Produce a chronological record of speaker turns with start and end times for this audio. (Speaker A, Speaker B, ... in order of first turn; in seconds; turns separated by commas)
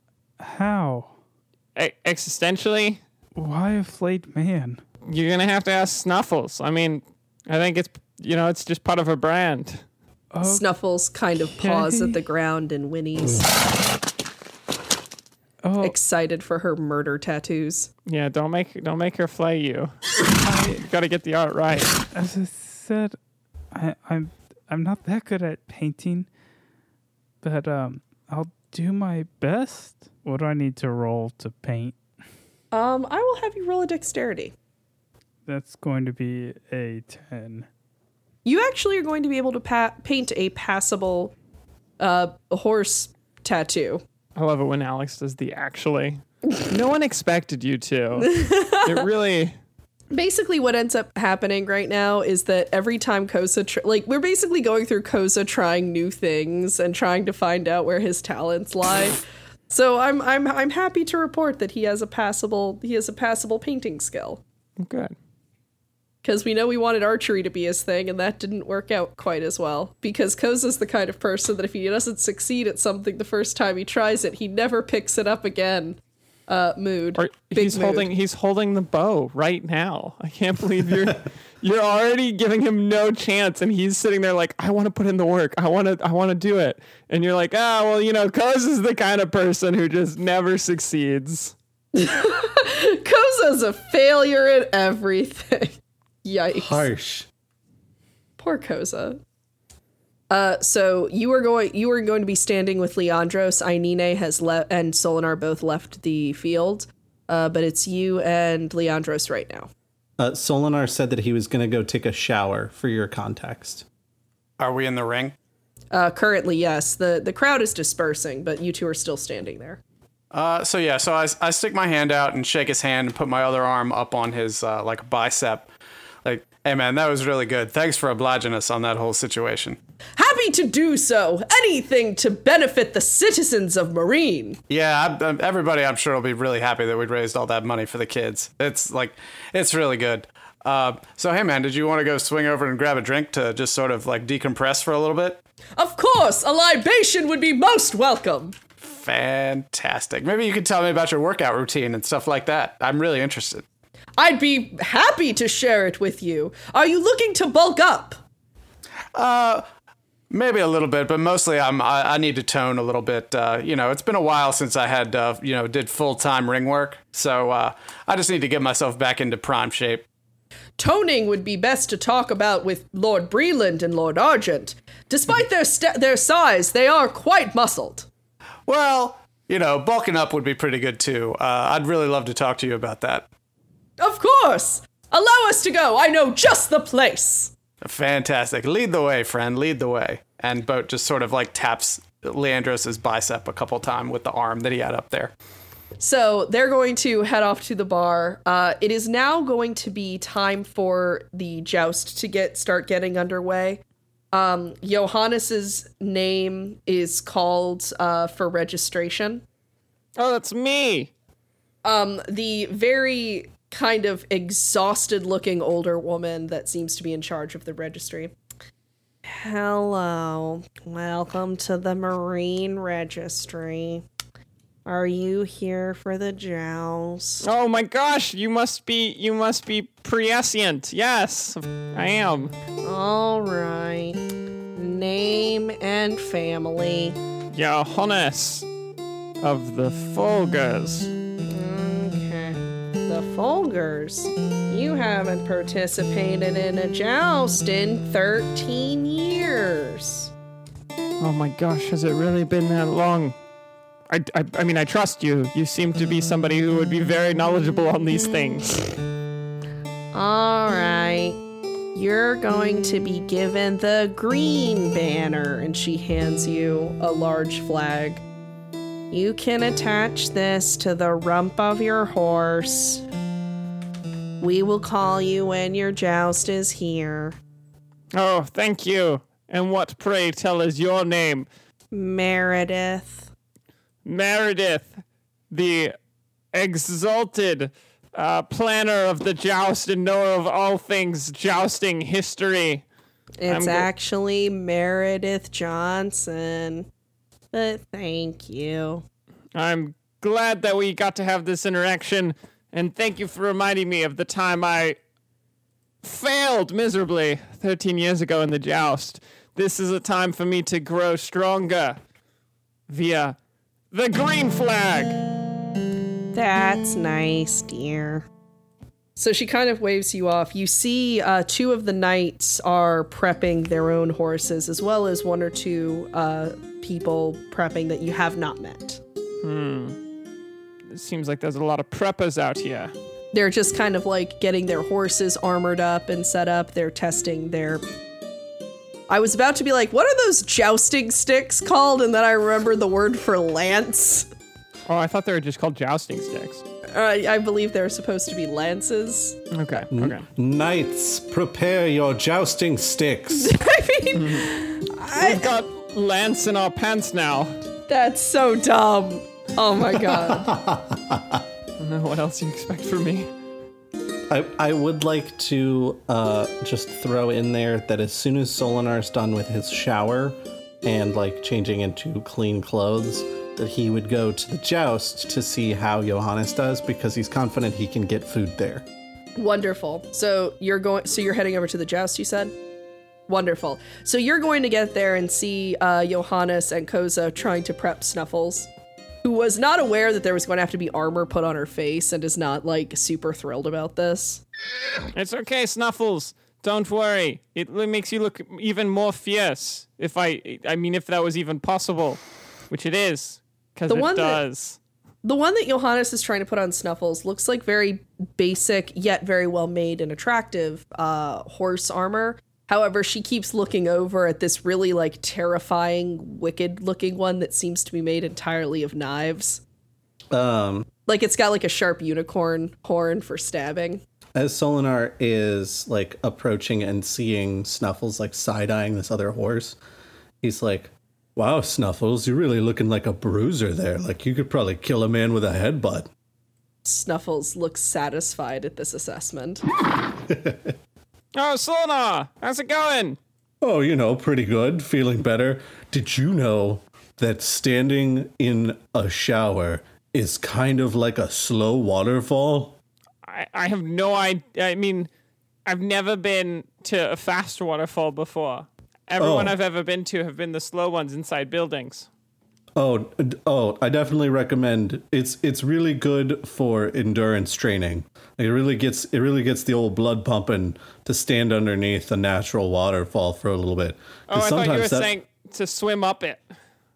Speaker A: 0.4-1.1, Speaker B: 1.8-3.0, Speaker A: 3.4-4.8, Speaker B: 5.1-9.8, Speaker A: 10.3-10.7, Speaker C: 10.4-13.5, Speaker A: 11.6-12.2, Speaker A: 15.6-16.0, Speaker C: 15.8-17.9, Speaker B: 18.1-19.9, Speaker A: 20.4-20.8, Speaker B: 20.6-22.0, Speaker A: 22.1-23.2, Speaker A: 23.7-26.3, Speaker A: 27.4-31.9, Speaker C: 32.7-34.5, Speaker A: 35.5-37.7, Speaker C: 38.5-41.3, Speaker C: 42.0-44.0, Speaker B: 44.4-49.5, Speaker C: 48.2-49.0, Speaker C: 50.1-64.4, Speaker B: 64.8-65.1, Speaker C: 66.2-78.1, Speaker B: 77.2-91.5, Speaker C: 91.9-96.9, Speaker D: 96.5-97.3, Speaker C: 98.4-99.2, Speaker C: 100.3-109.7, Speaker D: 110.2-113.8, Speaker E: 114.6-115.3, Speaker C: 115.9-119.8, Speaker E: 120.3-125.7, Speaker E: 126.2-129.8, Speaker C: 130.2-134.6, Speaker E: 134.7-145.4, Speaker C: 145.8-148.6, Speaker E: 148.8-153.6, Speaker C: 154.2-158.2, Speaker E: 159.2-159.7, Speaker E: 160.3-170.1, Speaker C: 170.8-178.1, Speaker E: 178.7-183.3, Speaker C: 184.0-187.5, Speaker E: 187.8-195.3, Speaker C: 196.0-209.4, Speaker B: 210.2-211.1, Speaker C: 211.8-218.3, Speaker C: 219.2-224.0, Speaker C: 224.9-227.4, Speaker B: 227.4-232.5, Speaker C: 232.8-234.2, Speaker C: 234.8-237.2, Speaker B: 237.5-238.7, Speaker B: 239.4-241.1, Speaker C: 241.5-250.3, Speaker B: 251.2-253.3, Speaker B: 254.1-258.9, Speaker C: 260.1-261.4, Speaker C: 261.9-268.2, Speaker C: 269.1-273.0, Speaker C: 274.4-277.4, Speaker B: 278.1-281.5, Speaker C: 281.9-283.3, Speaker B: 284.1-285.9, Speaker B: 286.5-292.9, Speaker C: 293.4-296.9, Speaker B: 293.5-293.9, Speaker C: 297.5-299.0, Speaker B: 299.6-305.0, Speaker B: 306.0-312.0, Speaker B: 312.9-313.4, Speaker B: 313.9-315.2, Speaker C: 316.3-318.3, Speaker C: 319.2-329.0, Speaker B: 329.4-330.0, Speaker B: 330.9-332.9, Speaker C: 333.3-337.8, Speaker C: 339.1-344.3, Speaker B: 344.9-346.6, Speaker C: 346.9-349.4, Speaker B: 349.5-350.2, Speaker D: 349.9-353.5, Speaker C: 353.3-355.5, Speaker B: 354.1-354.5, Speaker B: 355.2-357.6, Speaker C: 357.9-360.6, Speaker D: 360.0-361.4, Speaker B: 361.8-363.3, Speaker D: 364.3-378.9, Speaker C: 379.4-382.6, Speaker C: 383.3-388.7, Speaker C: 389.2-394.4, Speaker B: 395.1-404.8, Speaker C: 403.9-404.4, Speaker C: 405.2-419.6, Speaker D: 420.3-420.9, Speaker C: 421.1-424.0, Speaker D: 424.4-429.8, Speaker D: 430.4-436.1, Speaker C: 436.9-439.6, Speaker D: 440.3-440.8, Speaker B: 441.4-443.2, Speaker D: 443.6-452.8, Speaker B: 453.2-455.1, Speaker B: 455.7-462.1, Speaker D: 459.2-459.6, Speaker D: 462.8-475.1, Speaker B: 474.3-476.5